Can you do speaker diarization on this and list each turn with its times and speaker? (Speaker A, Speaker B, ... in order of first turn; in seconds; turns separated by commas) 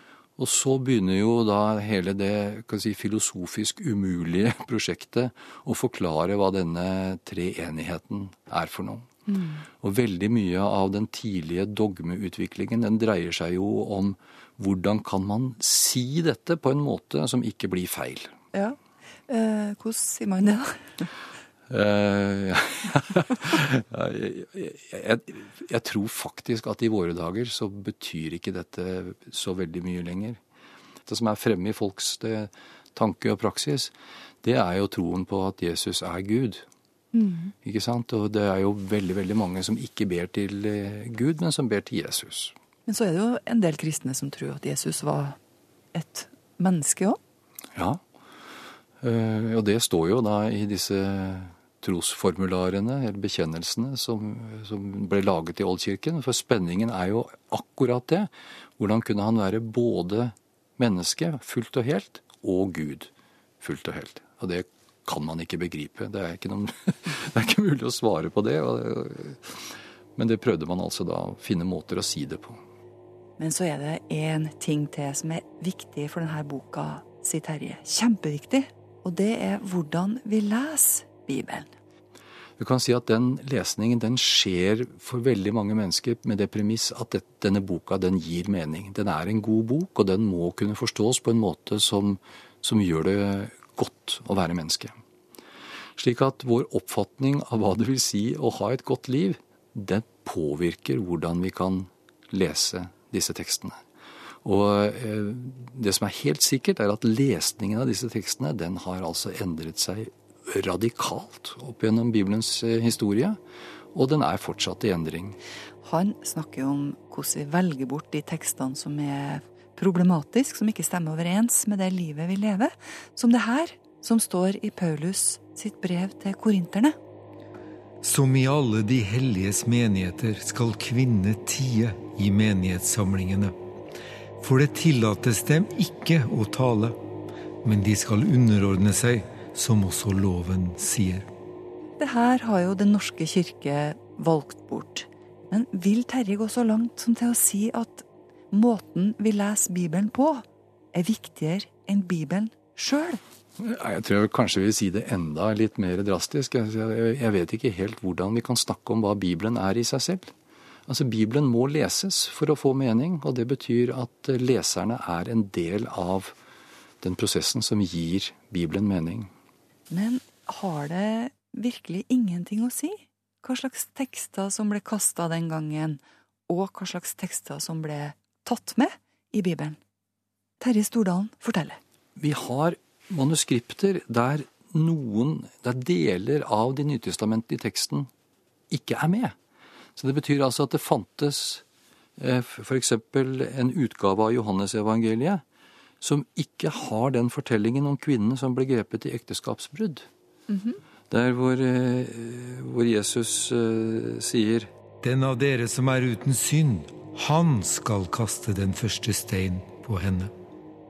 Speaker A: 0.4-9.1, Speaker B: 9.3-9.6, Speaker A: 9.8-18.3, Speaker B: 18.5-21.1, Speaker A: 21.7-30.4, Speaker A: 31.1-36.6, Speaker B: 37.1-37.5, Speaker A: 37.6-42.5, Speaker B: 42.9-45.4, Speaker B: 45.9-47.2, Speaker A: 47.7-48.0, Speaker A: 49.0-72.6, Speaker B: 73.4-81.7, Speaker A: 82.6-95.0, Speaker A: 96.0-103.8, Speaker A: 104.4-113.4, Speaker A: 113.9-115.4, Speaker B: 115.8-126.9, Speaker C: 128.0-133.5, Speaker C: 134.4-137.0, Speaker C: 137.6-141.3, Speaker B: 142.0-153.2, Speaker A: 153.6-160.3, Speaker A: 160.9-166.3, Speaker A: 167.0-169.3, Speaker B: 169.9-179.8, Speaker B: 180.6-181.8, Speaker A: 182.2-188.1, Speaker A: 188.7-189.3, Speaker A: 189.9-191.6, Speaker A: 192.2-195.4, Speaker A: 196.0-200.1, Speaker A: 201.1-204.7, Speaker C: 205.0-210.3